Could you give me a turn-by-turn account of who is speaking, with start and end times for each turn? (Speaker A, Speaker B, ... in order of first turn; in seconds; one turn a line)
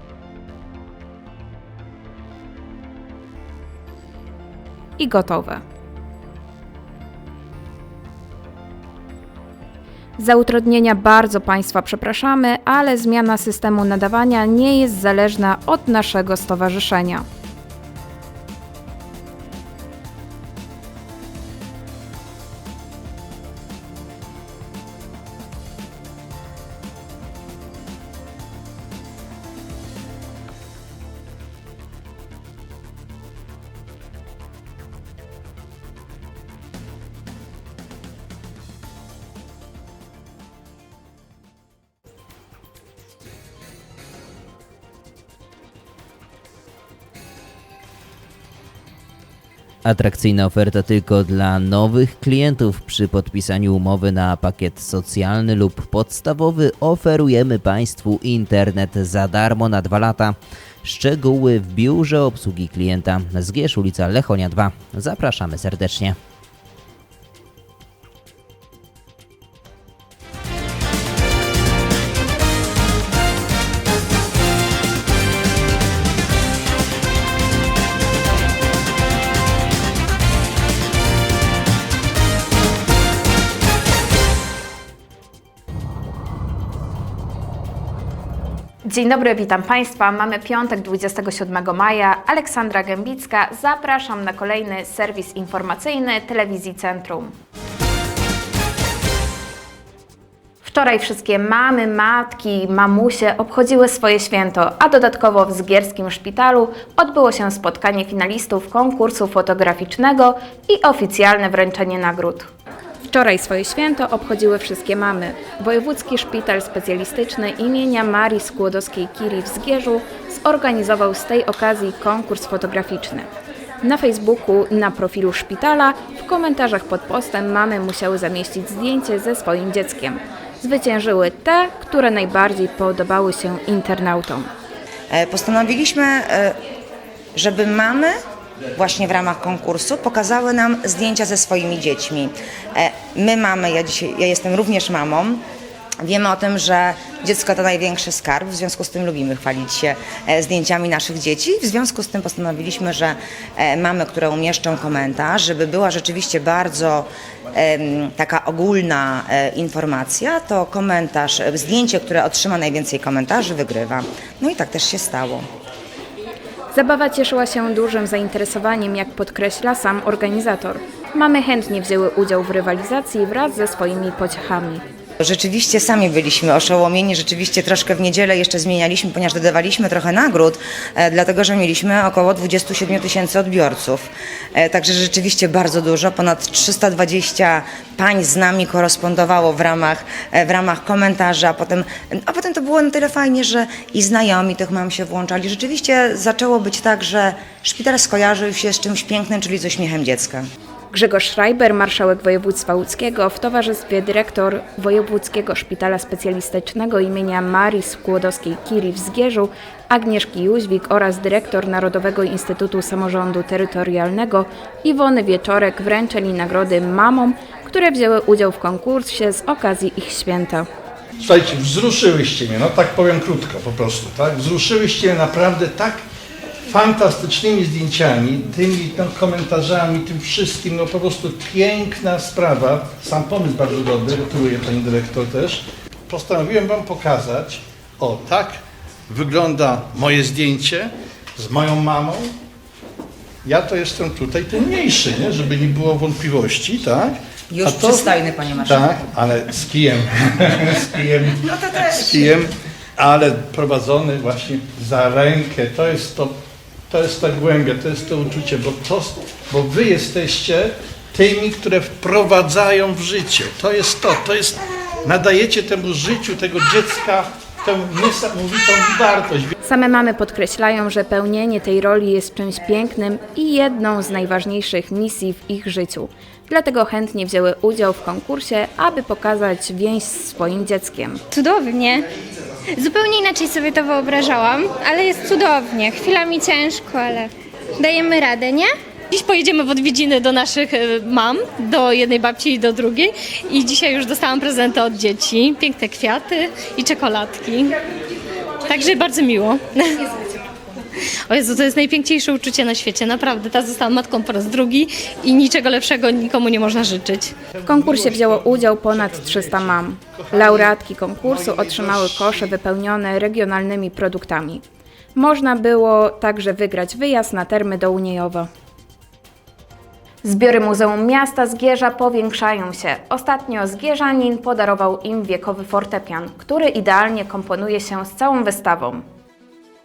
Speaker A: 5.0-5.6
Speaker A: 10.2-17.2
Speaker B: 49.9-66.2
Speaker A: 88.8-97.3
Speaker A: 100.6-112.5
Speaker A: 113.0-123.3
Speaker A: 123.8-134.5
Speaker C: 135.1-136.6
Speaker C: 137.3-138.1
Speaker C: 138.8-145.4
Speaker C: 146.0-165.5
Speaker A: 166.7-174.8
Speaker C: 175.2-200.4
Speaker A: 200.9-220.7
Speaker D: 221.2-226.0
Speaker D: 226.7-238.6
Speaker D: 239.1-242.3
Speaker D: 243.4-256.3
Speaker C: 247.5-249.1
Speaker D: 256.9-269.5
Speaker A: 269.6-281.2
Speaker E: 281.3-282.1
Speaker E: 282.7-288.7
Speaker F: 289.1-297.8
Speaker F: 298.6-300.4
Speaker F: 301.3-307.4
Speaker D: 307.6-312.5
Speaker A: 307.6-314.6
Speaker A: 315.1-318.5
Speaker A: 320.2-329.0